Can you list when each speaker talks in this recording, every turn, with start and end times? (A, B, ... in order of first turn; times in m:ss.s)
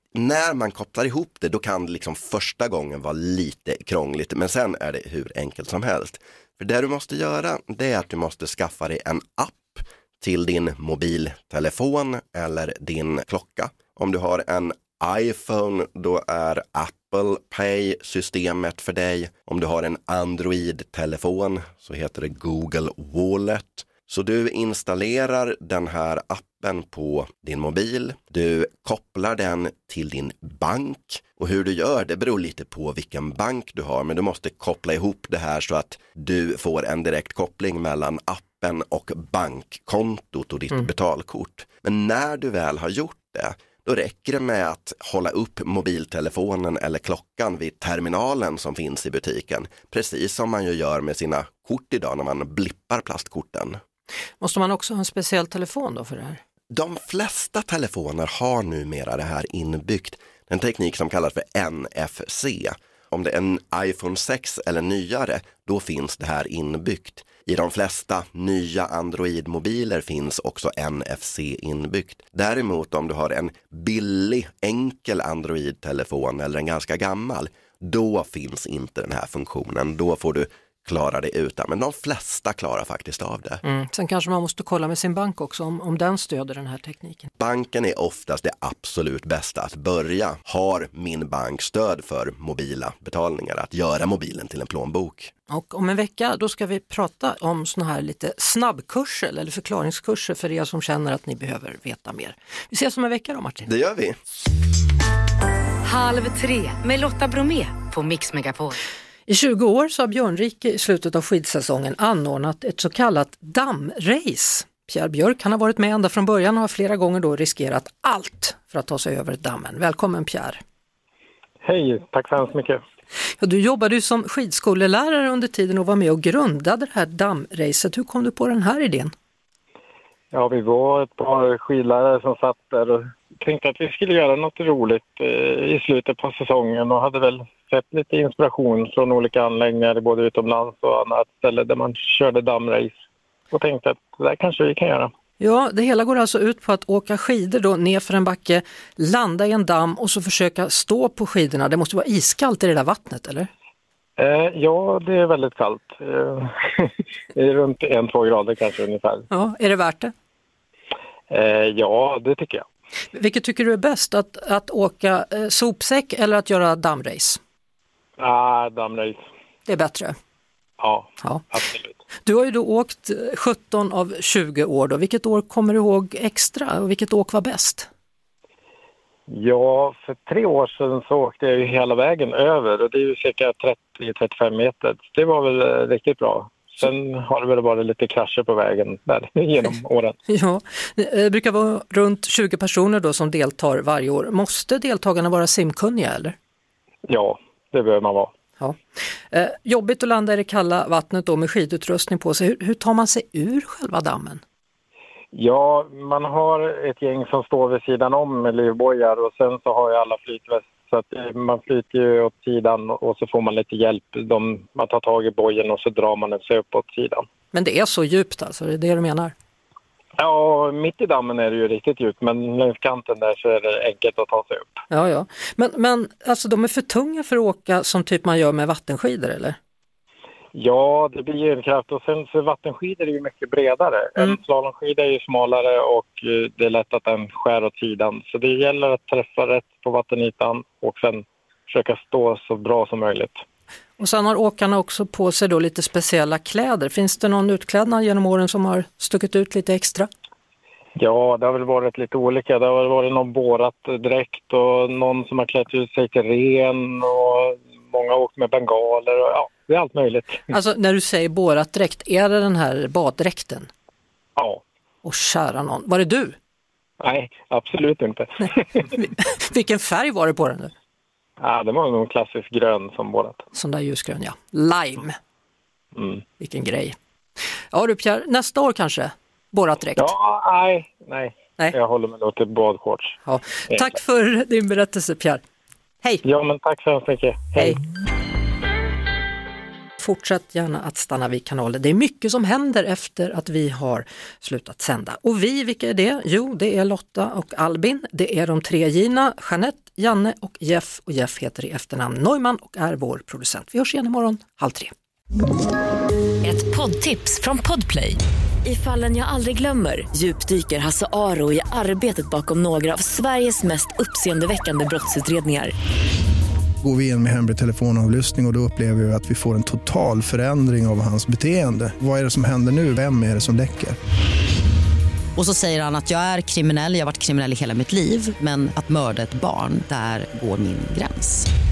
0:00.1-0:53.8 A
0:54.4-0:56.4 B
0:56.7-1:23.6 A
1:23.6-1:27.3 B
1:27.4-1:35.3 A
1:35.5-1:43.7 B
1:43.6-1:44.2 A
1:45.8-1:48.8 C
1:49.3-2:00.6 B
2:01.6-2:02.8 D
2:03.4-2:09.1 B
2:10.3-2:22.9 D
2:23.5-2:25.1 D
2:25.4-2:33.5 B
2:34.2-2:36.4 D
2:37.4-2:39.3 D
2:39.3-2:40.1 B
2:41.3-2:42.6 D
2:43.1-2:47.4 B
2:48.2-2:49.2 D
2:49.7-2:50.2 B
2:50.8-2:52.0 D
2:52.2-2:57.9 B
2:59.3-3:10.2 D
3:10.3-3:16.3 B
3:17.0-3:18.3 D
3:19.3-3:24.4 B
3:25.3-3:37.2 D
3:37.5-3:39.3 B
3:40.2-3:44.8 D
3:44.9-3:49.6 B
3:50.5-4:03.4 D
4:04.0-4:10.1 B
4:11.0-4:20.4 D
4:20.5-4:23.7 B
4:24.4-4:24.6 D
4:25.0-4:26.4 B
4:27.0-4:28.3 D
4:28.9-4:30.7 B
4:31.4-4:33.4 D
4:33.5-4:35.2 B
4:35.9-4:36.2 D
4:36.4-4:37.0 B
4:37.7-4:40.1 B
4:40.0-4:43.2 D
4:43.2-4:45.4 B
4:46.2-4:47.8 D
4:50.0-5:04.9 B
5:06.4-5:15.7 E
5:16.8-5:24.0 F
5:25.4-5:31.4 G